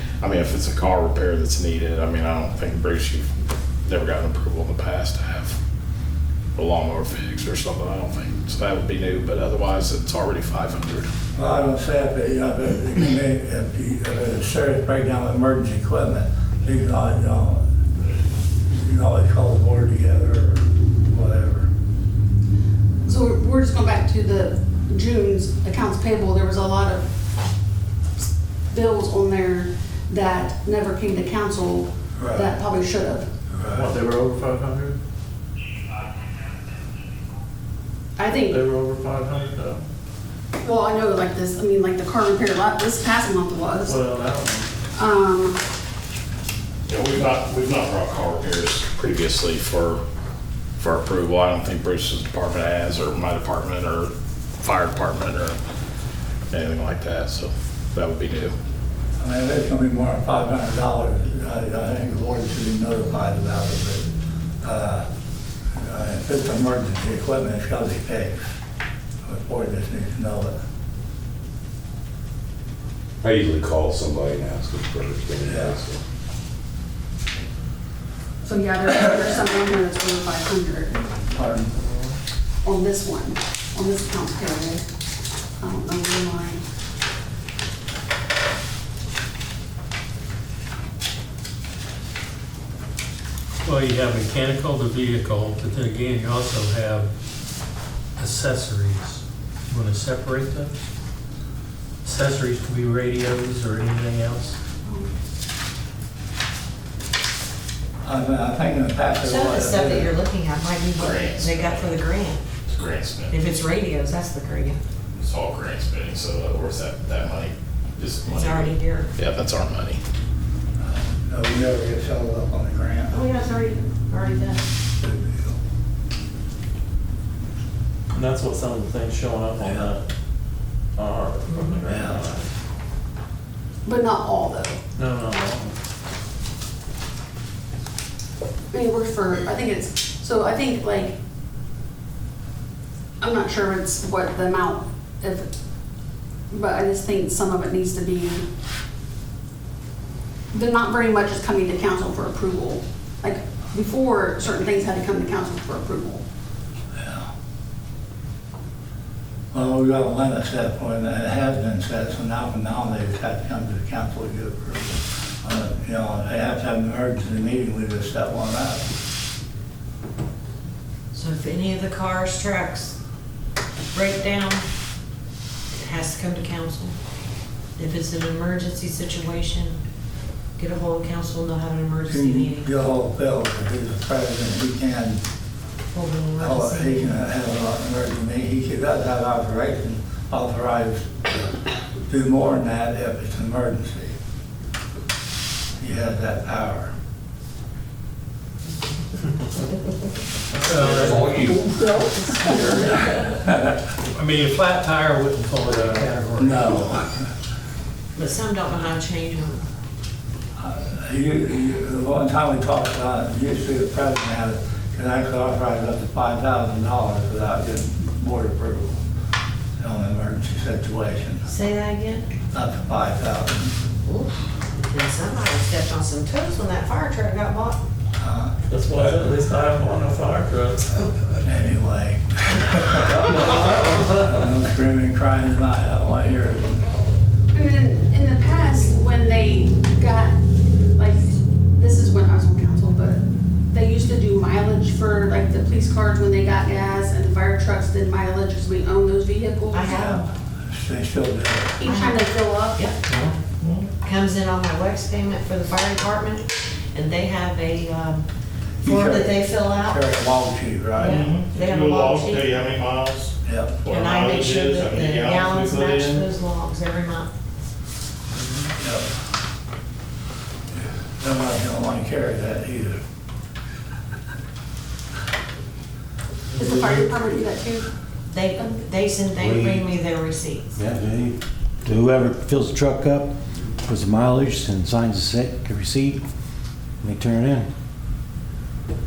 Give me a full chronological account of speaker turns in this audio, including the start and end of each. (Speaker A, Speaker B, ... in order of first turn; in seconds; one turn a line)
Speaker A: 0.6-3.3
Speaker A: 3.9-5.5
Speaker A: 6.6-11.1
Speaker B: 11.3-17.6
Speaker B: 18.7-21.7
Speaker C: 23.0-27.0
Speaker C: 28.7-33.3
Speaker B: 32.2-32.5
Speaker B: 33.6-33.9
Speaker D: 33.7-35.0
Speaker C: 38.2-38.6
Speaker D: 38.3-39.8
Speaker C: 40.6-44.0
Speaker D: 43.8-44.7
Speaker C: 45.0-45.6
Speaker A: 46.9-50.0
Speaker A: 50.8-55.6
Speaker A: 56.5-58.5
Speaker B: 59.2-64.1
Speaker B: 64.6-65.0
Speaker B: 65.8-68.5
Speaker B: 69.2-70.5
Speaker E: 73.2-76.0
Speaker B: 75.4-75.8
Speaker C: 78.4-81.0
Speaker B: 81.2-81.7
Speaker D: 81.8-82.1
Speaker C: 82.6-84.8
Speaker C: 85.6-86.6
Speaker F: 93.6-97.1
Speaker F: 98.2-100.8
Speaker F: 102.0-104.6
Speaker C: 104.8-105.1
Speaker B: 108.0-110.1
Speaker G: 109.2-112.4
Speaker A: 111.0-111.9
Speaker A: 112.7-113.3
Speaker G: 113.3-114.8
Speaker A: 115.1-120.0
Speaker G: 118.3-119.1
Speaker B: 120.8-123.2
Speaker G: 123.1-124.6
Speaker B: 125.0-125.5
Speaker D: 128.1-130.0
Speaker D: 130.9-132.4
Speaker G: 131.5-132.2
Speaker B: 131.9-132.2
Speaker C: 133.8-134.8
Speaker D: 134.9-135.7
Speaker C: 138.7-141.2
Speaker C: 143.2-145.5
Speaker C: 146.5-148.4
Speaker C: 150.5-156.2
Speaker B: 157.0-157.3
Speaker B: 159.5-168.8
Speaker G: 171.1-172.9
Speaker G: 173.9-174.7
Speaker G: 175.7-176.9
Speaker G: 177.8-179.8
Speaker G: 180.6-182.7
Speaker B: 182.1-185.2
Speaker G: 185.9-187.1
Speaker B: 186.4-191.3
Speaker B: 192.1-194.2
Speaker B: 195.8-196.9
Speaker F: 200.7-201.2
Speaker E: 201.0-201.9
Speaker B: 203.3-203.8
Speaker F: 204.1-206.8
Speaker B: 206.4-207.3
Speaker G: 208.1-209.6
Speaker B: 210.6-219.0
Speaker B: 219.8-221.5
Speaker G: 221.4-222.3
Speaker B: 222.5-223.7
Speaker G: 224.0-227.8
Speaker B: 228.2-228.5
Speaker D: 228.7-231.1
Speaker B: 231.4-233.5
Speaker D: 232.9-234.4
Speaker B: 234.1-236.8
Speaker C: 237.5-240.4
Speaker C: 240.9-250.1
Speaker G: 249.7-250.2
Speaker B: 249.9-251.8
Speaker C: 251.8-252.8
Speaker G: 251.8-253.0
Speaker A: 253.6-253.9
Speaker G: 254.0-258.2
Speaker B: 258.8-261.3
Speaker G: 258.8-260.0
Speaker G: 260.9-262.7
Speaker A: 261.1-263.2
Speaker B: 263.4-263.8
Speaker A: 263.9-266.2
Speaker G: 263.9-267.3
Speaker B: 268.8-269.1
Speaker B: 271.2-273.0
Speaker C: 276.6-277.9
Speaker G: 278.3-280.8
Speaker H: 279.4-279.9
Speaker H: 280.8-286.2
Speaker H: 287.0-287.7